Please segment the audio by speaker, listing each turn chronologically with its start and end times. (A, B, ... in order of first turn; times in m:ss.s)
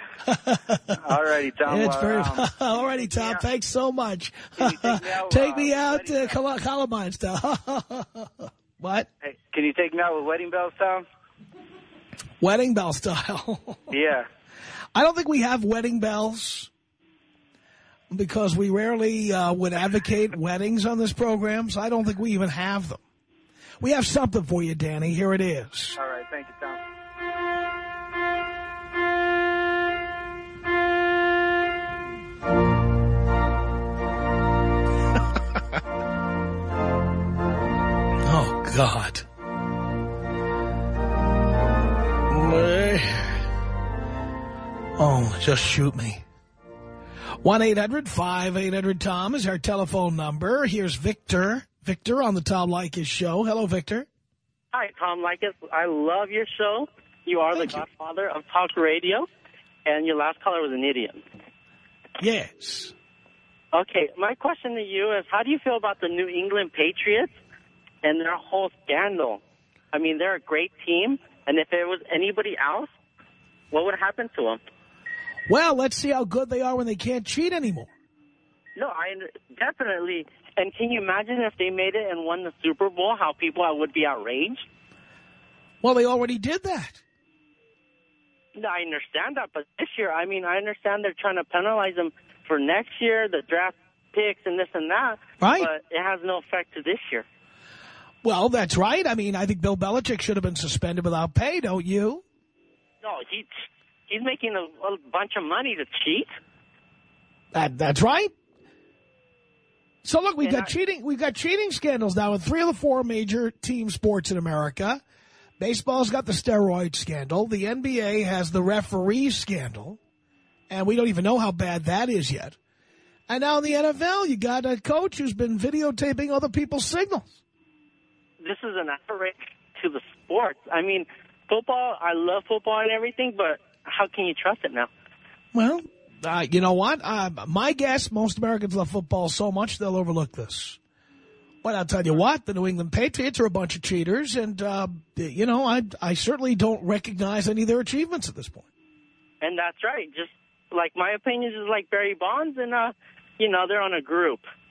0:00.2-0:09.1 A
0:01.0-0:03.4 B
0:04.6-0:06.4 B
0:09.2-0:11.0 B
0:12.4-0:14.0 A
0:13.9-0:14.3 B
0:14.9-0:16.7 A
0:18.1-0:23.0 A
0:23.8-0:26.0 A
0:26.0-0:26.8 B
0:38.2-0:39.2 A
0:42.3-0:43.5 A
0:45.0-0:46.2 A
0:47.4-0:54.1 A
0:54.7-0:59.3 C
0:57.5-0:57.8 A
0:59.8-1:01.2 C
1:02.2-1:02.9 A
1:03.7-1:07.3 C
1:08.0-1:09.4 C
1:09.9-1:12.9 C
1:13.7-1:14.6 C
1:15.5-1:17.9 A
1:18.8-1:24.6 C
1:25.8-1:27.0 A
1:28.6-1:37.2 C
1:35.4-1:35.7 A
1:38.2-1:42.2 A
1:43.0-1:43.5 C
1:44.1-1:46.3 C
1:47.5-1:48.3 A
1:50.0-1:55.0 A
1:50.4-1:50.7 C
1:55.6-2:00.0 A
2:00.7-2:02.6 A
2:03.3-2:07.4 A
2:08.4-2:14.9 C
2:15.5-2:20.8 A
2:21.6-2:28.6 A
2:29.4-2:34.4 C